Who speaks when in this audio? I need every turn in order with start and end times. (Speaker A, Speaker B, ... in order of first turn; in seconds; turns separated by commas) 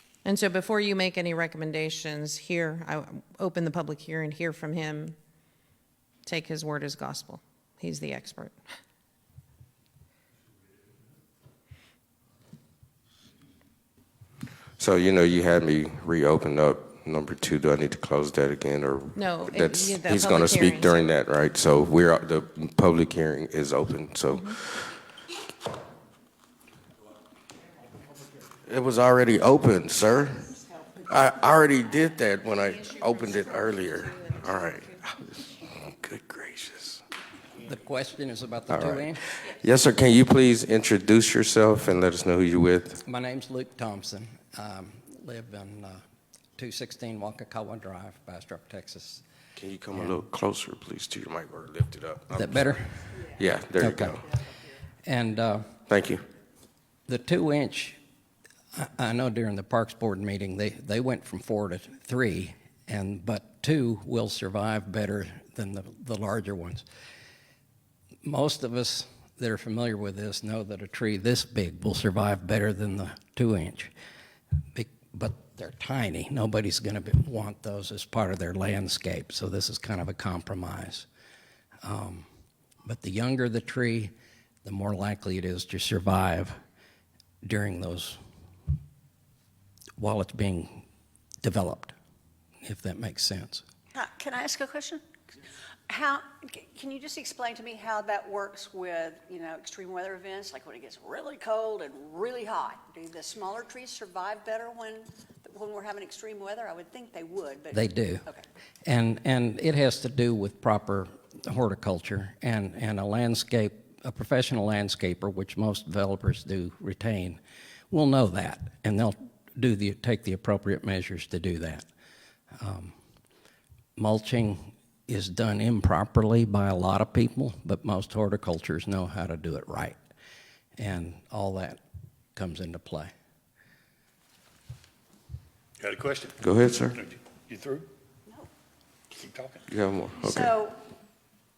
Speaker A: 0.2-5.2, Speaker A: 6.2-8.6, Speaker B: 14.8-24.9, Speaker A: 19.1-21.1, Speaker A: 24.3-24.6, Speaker B: 28.6-30.6, Speaker B: 31.1-37.0, Speaker C: 37.6-39.2, Speaker B: 38.7-43.0, Speaker C: 43.0-46.0, Speaker C: 46.6-49.2, Speaker B: 49.5-52.6, Speaker C: 52.3-53.2, Speaker B: 53.3-54.2, Speaker C: 53.7-54.3, Speaker C: 55.0-55.7, Speaker B: 55.9-56.2, Speaker C: 57.1-58.0, Speaker C: 58.7-66.8, Speaker C: 68.2-73.9, Speaker C: 74.7-81.1, Speaker C: 81.8-82.2, Speaker C: 82.8-84.1, Speaker C: 84.6-86.5, Speaker C: 87.4-88.2, Speaker C: 90.0-90.8, Speaker C: 91.4-91.9, Speaker C: 92.6-93.6, Speaker D: 93.9-95.0, Speaker D: 95.9-108.4, Speaker C: 107.7-108.2, Speaker C: 108.8-121.8, Speaker C: 122.5-122.9, Speaker C: 124.0-130.0, Speaker C: 130.8-131.8, Speaker C: 132.3-133.1, Speaker E: 135.8-137.9, Speaker B: 136.4-137.0, Speaker E: 139.1-139.6, Speaker B: 139.7-140.5, Speaker D: 140.2-140.8